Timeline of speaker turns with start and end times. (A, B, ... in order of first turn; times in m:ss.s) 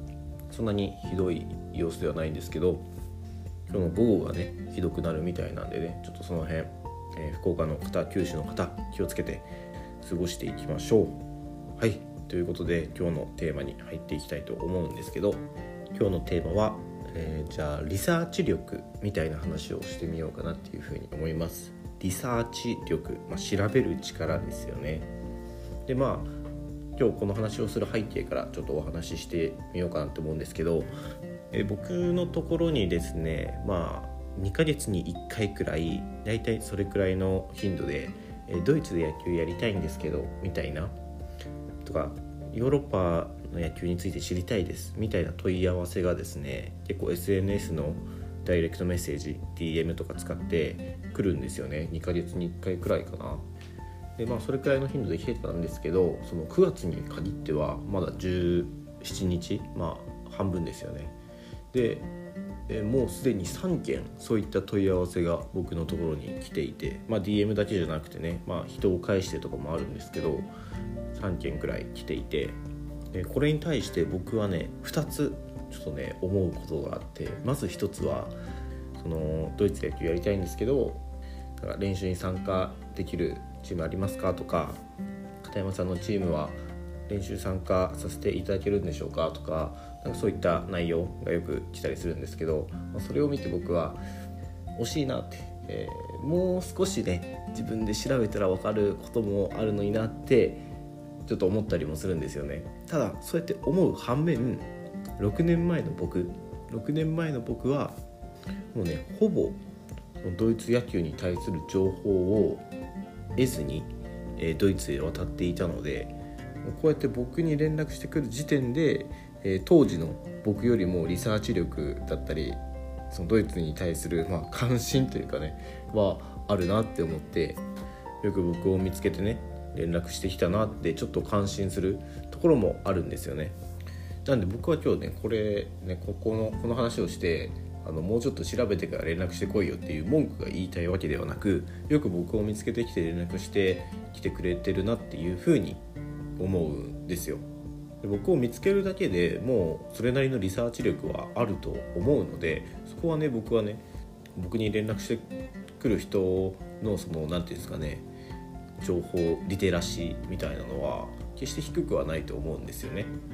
0:00.5-0:02.8 A
0:03.7-0:09.5 A
0:10.0-0:11.2 A
0:11.8-0:25.1 A
0:25.9-0:26.3 A
0:27.0-0:30.9 A
0:31.5-0:40.9 A
0:41.8-0:53.4 A
0:54.2-1:01.2 A
1:01.7-1:02.1 A
1:02.7-1:10.5 A
1:11.1-1:12.6 A
1:13.1-1:18.4 A
1:19.0-1:21.0 A
1:21.6-1:24.8 A
1:25.4-1:26.6 A
1:27.1-1:34.0 A
1:34.8-1:40.6 A
1:41.3-1:44.7 A
1:45.2-1:48.0 A
1:48.7-1:49.6 A
1:50.2-1:52.6 A
1:53.4-2:07.6 A
2:08.2-2:13.6 A
2:14.2-2:25.8 A
2:26.4-2:27.4 A
2:28.0-2:33.8 A
2:34.4-2:35.3 A
2:35.8-2:38.1 A
2:38.8-2:43.1 A